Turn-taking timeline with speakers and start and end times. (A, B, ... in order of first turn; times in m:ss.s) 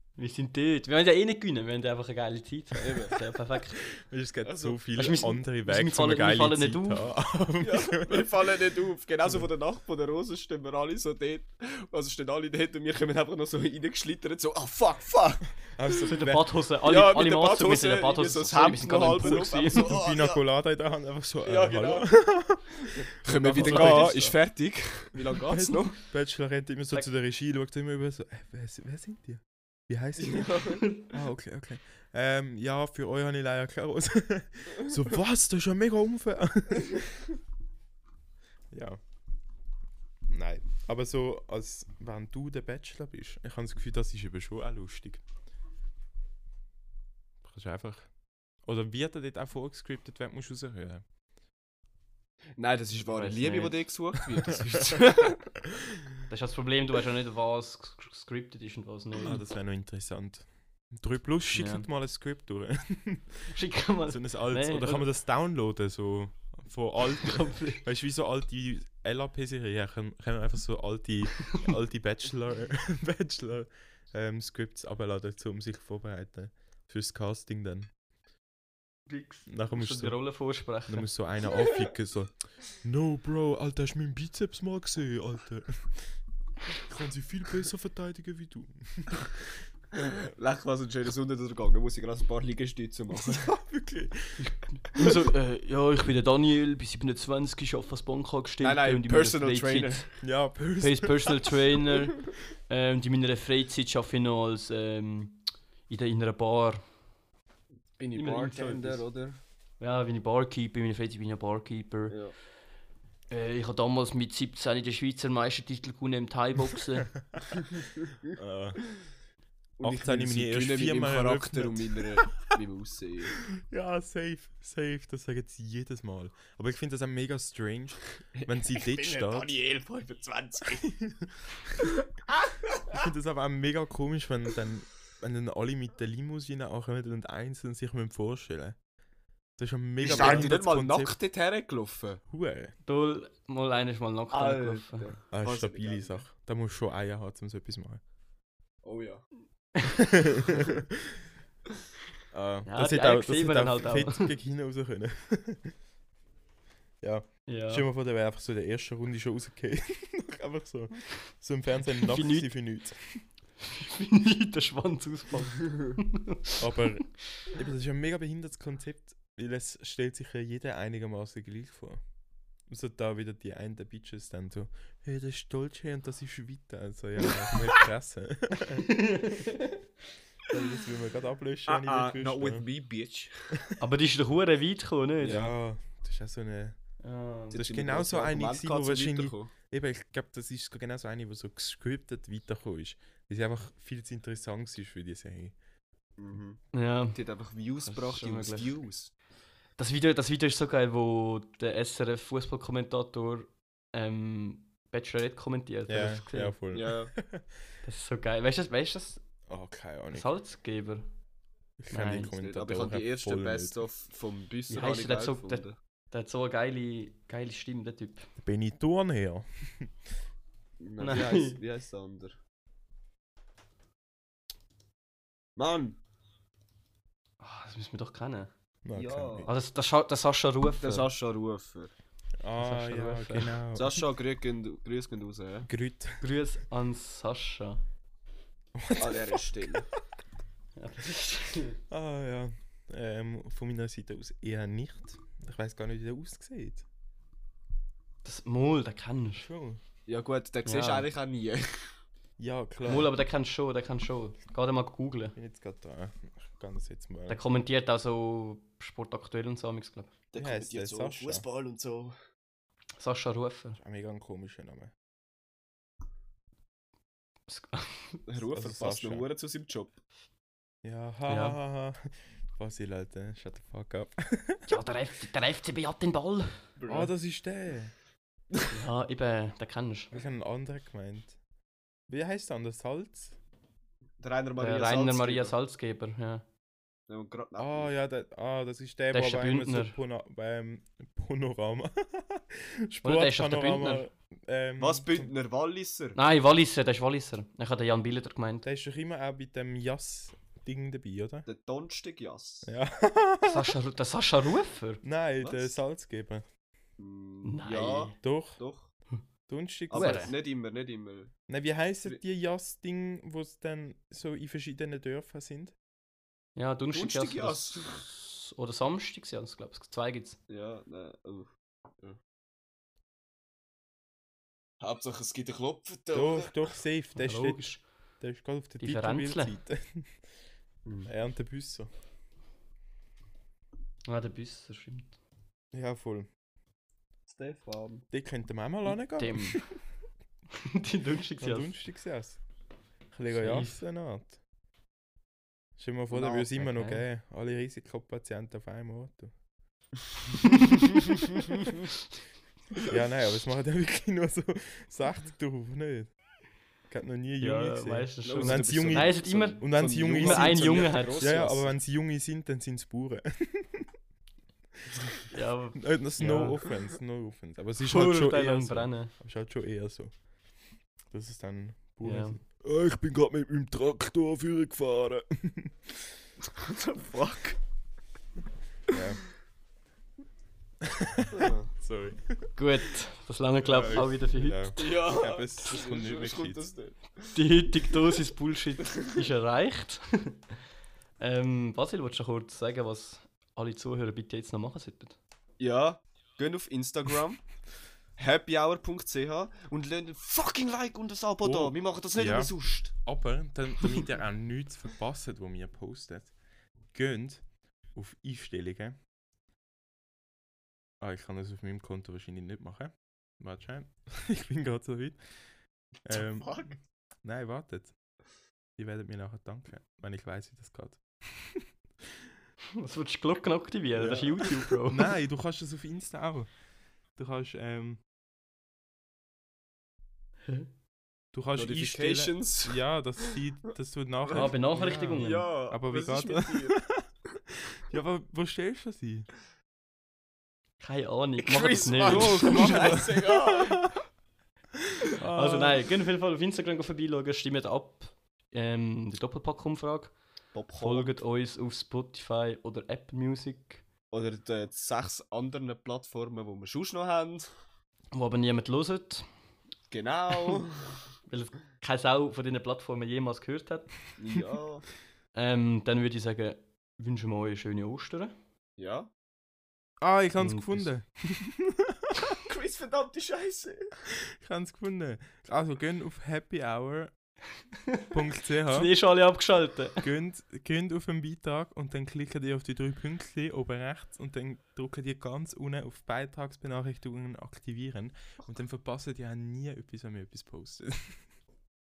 0:00.2-0:03.8 A
0:02.8-0:03.2 B
0:04.0-0:08.3 C
0:04.4-0:04.8 B
0:04.9-0:07.0 A
0:07.6-0:15.6 B
0:15.7-0:16.5 C
0:16.0-0:19.9 A
0:16.8-0:20.4 B
0:19.1-0:24.2 C
0:21.4-0:22.1 B
0:22.8-0:26.0 B
0:23.5-0:24.3 A
0:25.4-0:37.1 C
0:30.2-0:30.8 B
0:38.7-0:39.0 C
0:40.3-0:45.2 C
0:47.4-0:48.1 C
0:48.6-0:51.0 C
0:52.6-0:55.4 B
0:53.1-0:53.8 A
0:54.5-0:55.3 A
0:56.3-0:59.4 A
0:59.2-1:17.9 C
1:01.5-1:01.9 A
1:03.5-1:05.1 A
1:07.2-1:07.8 A
1:19.1-1:21.1 A
1:19.5-1:20.2 C
1:20.8-1:26.1 C
1:26.7-1:29.4 C
1:29.9-1:33.5 B
1:33.2-1:34.4 C
1:34.4-1:40.1 A
1:38.6-1:40.1 B
1:40.2-1:41.5 C
1:40.8-1:46.8 A
1:48.0-1:49.4 B
1:48.1-1:49.0 A
1:49.8-1:52.2 A
1:52.1-1:52.3 B
1:53.3-1:57.1 A
1:58.3-1:58.9 C
1:59.8-2:03.4 B
1:59.8-2:02.5 C
2:03.4-2:09.5 C
2:08.3-2:11.0 B
2:10.7-2:11.9 C
2:12.3-2:13.0 B
2:12.9-2:18.8 C
2:19.6-2:21.2 C
2:20.0-2:22.2 B
2:22.3-2:22.7 C
2:22.8-2:25.1 A
2:24.3-2:26.2 B
2:25.3-2:28.0 C
2:28.8-2:29.3 B
2:30.0-2:31.1 C
2:32.3-2:35.7 C
2:32.6-2:34.3 A
2:37.0-2:43.3 C
2:37.4-2:37.8 A
2:42.0-2:42.5 A
2:43.6-2:46.3 A
2:46.6-2:52.0 C
2:52.7-2:58.9 C
2:58.8-2:59.8 A
3:00.5-3:02.6 C
3:01.6-3:03.5 B
3:03.8-3:05.5 A
3:05.2-3:05.5 B
3:05.2-3:06.8 C
3:07.0-3:07.6 A
3:07.5-3:09.5 B
3:07.5-3:15.5 C
3:16.2-3:19.1 B
3:16.7-3:17.2 A
3:17.8-3:18.7 A
3:19.8-3:26.6 A
3:25.9-3:27.6 C
3:26.7-3:27.1 B
3:27.8-3:29.2 A
3:29.5-3:30.3 C
3:30.1-3:31.1 A
3:31.8-3:33.8 C
3:31.9-3:32.3 A
3:32.3-3:35.7 B
3:34.7-3:38.3 A
3:38.4-3:39.9 C
3:40.8-3:42.4 B
3:41.0-3:41.6 A
3:45.6-3:46.0 B
3:47.4-3:48.5 A
3:48.8-3:49.5 C
3:48.9-3:49.5 B
3:49.4-3:51.1 A
3:50.8-3:51.9 B
3:52.4-3:54.0 C
3:52.6-3:53.6 A
3:53.7-3:55.7 B
3:55.7-3:56.2 C
3:56.2-3:57.8 A
3:58.8-3:59.8 C
3:59.0-3:59.9 B
4:00.8-4:01.8 A
4:01.9-4:06.8 C
4:08.2-4:09.5 A
4:09.4-4:09.8 C
4:10.1-4:11.9 B
4:10.6-4:11.1 A
4:12.4-4:13.1 C
4:12.8-4:15.4 A
4:15.4-4:17.4 C
4:17.3-4:20.1 A
4:20.3-4:22.2 B
4:20.4-4:21.4 C
4:23.0-4:23.8 A
4:23.8-4:24.9 C
4:27.5-4:28.2 A
4:28.3-4:30.0 B
4:28.5-4:29.2 C
4:30.8-4:34.7 C
4:31.3-4:31.6 A
4:34.7-4:36.6 A
4:36.8-4:37.1 B
4:36.9-4:37.9 C
4:38.7-4:40.2 A
4:40.1-4:41.4 C
4:42.1-4:43.4 C
4:44.2-4:45.5 B
4:44.6-4:46.4 A
4:47.1-4:47.9 B
4:47.6-4:55.3 C
4:49.1-4:50.0 A
4:53.0-4:54.0 A
4:54.8-4:56.2 B
4:56.2-4:58.6 A
4:58.6-5:01.4 C
5:01.4-5:02.7 B
5:02.6-5:03.7 C
5:03.4-5:05.0 A
5:05.0-5:06.4 C
5:05.4-5:05.7 B
5:07.0-5:08.9 B
5:07.4-5:08.2 A
5:08.2-5:08.6 C
5:09.5-5:10.3 C
5:09.9-5:11.3 B
5:09.9-5:10.3 A
5:11.5-5:15.7 C
5:16.6-5:20.4 A
5:16.9-5:18.0 B
5:20.5-5:21.5 B
5:24.8-5:26.6 B
5:26.1-5:30.2 C
5:27.1-5:27.8 A
5:28.8-5:29.5 A
5:30.8-5:31.1 B
5:31.0-5:31.9 C
5:34.1-5:35.2 A
5:35.7-5:36.3 C
5:37.3-5:38.0 B
5:38.1-5:39.7 C
5:39.1-5:39.7 A
5:40.5-5:41.7 A
5:41.4-5:42.4 C
5:43.1-5:44.4 C
5:43.3-5:43.8 A
5:45.8-5:49.3 C
5:46.1-5:47.0 A
5:52.8-5:56.1 C
5:56.9-6:03.9 C
5:57.4-6:01.4 A
5:58.2-6:01.7 B
6:05.3-6:06.6 A
6:05.7-6:10.1 C
6:07.8-6:09.1 A
6:11.1-6:16.2 C
6:12.0-6:12.4 A
6:16.5-6:17.6 B
6:18.9-6:19.2 C
6:20.8-6:22.5 C
6:21.3-6:21.7 B
6:22.6-6:24.8 A
6:23.6-6:26.6 C
6:24.8-6:27.4 B
6:27.3-6:30.4 A
6:31.2-6:35.2 A
6:35.6-6:37.4 B
6:38.2-6:42.9 B
6:41.4-6:46.3 C
6:46.9-6:49.0 C
6:51.0-6:55.2 C
6:56.0-6:56.7 C
6:56.1-6:56.8 B
6:57.2-6:57.9 C
6:58.8-7:01.7 C
7:02.8-7:05.1 A
7:04.0-7:06.5 C
7:07.2-7:08.0 C
7:11.3-7:19.3 C
7:11.6-7:13.4 B
7:14.3-7:15.4 A
7:15.2-7:16.8 B
7:20.8-7:23.0 A
7:21.4-7:23.9 B
7:22.0-7:23.9 C
7:25.0-7:25.8 C
7:25.2-7:30.2 A
7:30.5-7:31.2 B
7:30.8-7:33.8 A
7:34.1-7:37.5 B
7:38.1-7:39.3 A
7:39.9-7:41.0 B
7:40.3-7:40.6 A
7:41.3-7:43.9 A
7:44.2-7:44.9 B
7:45.3-7:48.3 A
7:48.8-7:49.1 B
7:50.0-7:52.4 C
7:50.4-7:50.9 A
7:52.4-7:53.9 B
7:54.1-7:57.1 C
7:58.1-7:58.9 C
7:58.6-8:00.0 A
8:00.0-8:11.2 C